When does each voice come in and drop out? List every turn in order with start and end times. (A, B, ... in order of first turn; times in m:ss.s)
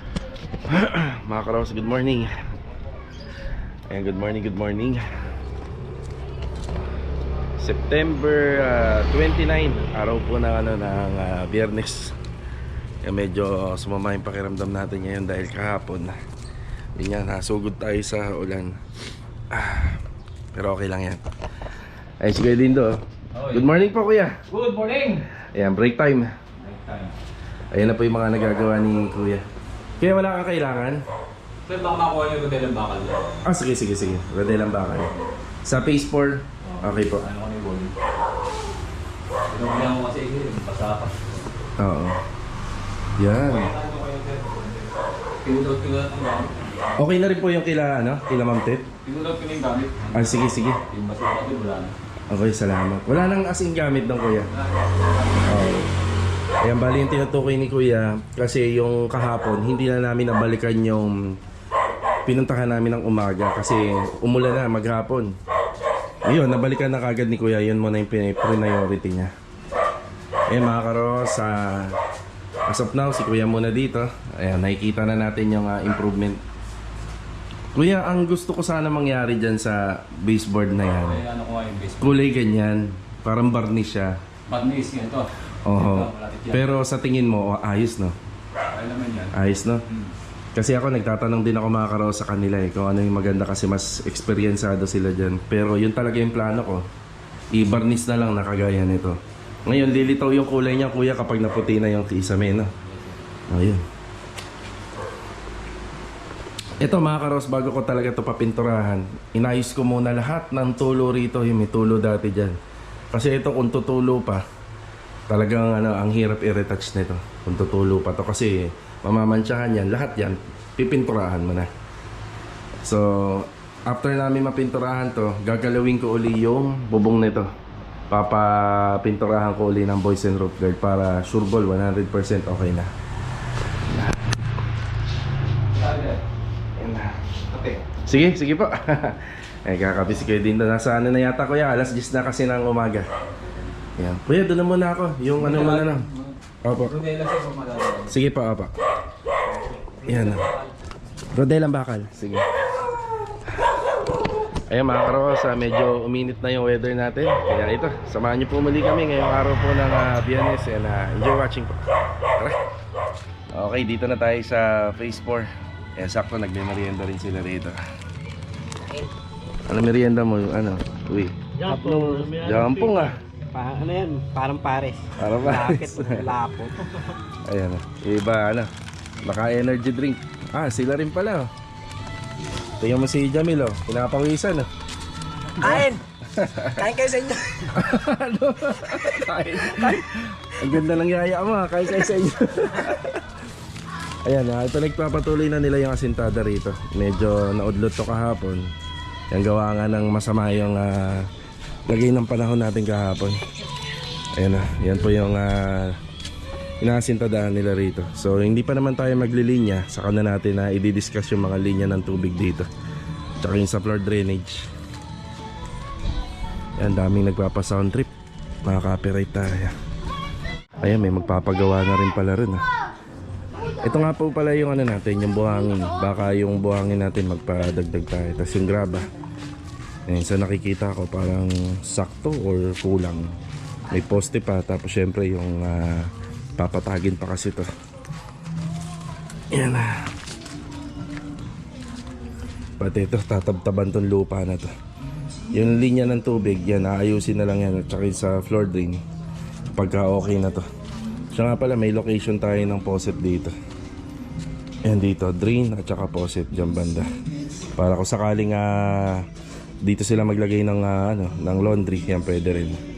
0:00.7-0:02.3 A
0:03.9-0:05.0 A
0:07.6-0:12.2 A
0:13.0-0:16.1 A
0:17.0-0:18.8 A
0:19.5-0:20.0 A
0:20.5-0:21.2 A
0:22.2-0:24.3 A
0:24.5-0:25.2 B
0:25.4-0:26.3 A
0:26.7-0:27.1 B
0:27.7-0:29.4 A
0:30.0-0:31.0 A
0:31.6-0:33.3 B
0:33.4-0:35.1 A
0:35.6-0:37.2 A
0:36.7-0:37.9 B
0:39.5-0:41.4 B
0:41.8-0:42.2 A
0:43.2-0:43.7 A
0:43.4-0:44.6 B
0:45.4-0:46.8 B
0:47.0-0:48.9 A
0:49.0-0:51.9 B
0:50.1-0:50.8 A
0:52.3-0:54.5 A
0:55.4-0:55.9 A
0:56.6-1:01.2 A
1:02.2-1:05.3 A
1:06.2-1:09.3 A
1:10.5-1:12.0 A
1:12.7-1:16.4 A
1:17.7-1:21.2 A
1:21.1-1:22.0 B
1:22.0-1:24.2 A
1:24.5-1:26.6 B
1:25.6-1:28.1 A
1:28.7-1:29.3 B
1:29.3-1:29.8 A
1:30.5-1:36.8 A
1:37.5-1:42.7 A
1:43.5-1:43.8 A
1:46.8-1:52.6 A
1:53.1-1:54.4 A
1:55.3-2:01.7 A
2:02.8-2:07.5 A
2:08.1-2:12.9 A
2:13.9-2:14.2 A
2:15.8-2:16.2 B
2:16.8-2:17.1 A
2:18.0-2:23.1 A
2:24.0-2:26.1 A
2:25.4-2:26.3 B
2:26.6-2:27.0 A
2:26.9-2:28.1 B
2:28.1-2:28.7 A
2:30.0-2:30.5 A
2:31.3-2:32.5 A
2:34.7-2:41.8 A
2:43.5-2:47.8 A
2:49.7-2:51.4 A
2:51.6-2:52.7 C
2:52.3-2:53.2 A
2:53.5-2:56.8 C
2:55.2-2:56.4 A
2:57.5-2:58.7 A
2:59.2-3:01.5 A
3:02.8-3:04.7 A
3:05.6-3:06.0 C
3:05.6-3:06.9 A
3:06.8-3:07.5 C
3:07.6-3:13.2 A
3:14.2-3:18.7 A
3:19.3-3:21.3 A
3:21.9-3:23.4 A
3:24.4-3:26.0 A
3:26.8-3:32.7 A
3:33.4-3:34.7 A
3:36.8-3:38.1 A
3:38.6-3:39.7 A
3:40.8-3:42.6 A
3:43.8-3:49.1 A
3:50.1-3:53.3 A
3:53.9-3:57.7 A
3:59.5-4:00.1 A
4:02.8-4:04.7 A
4:05.5-4:09.0 A
4:09.8-4:10.6 A
4:11.3-4:13.5 A
4:14.8-4:17.1 A
4:17.8-4:19.2 A
4:19.8-4:22.8 A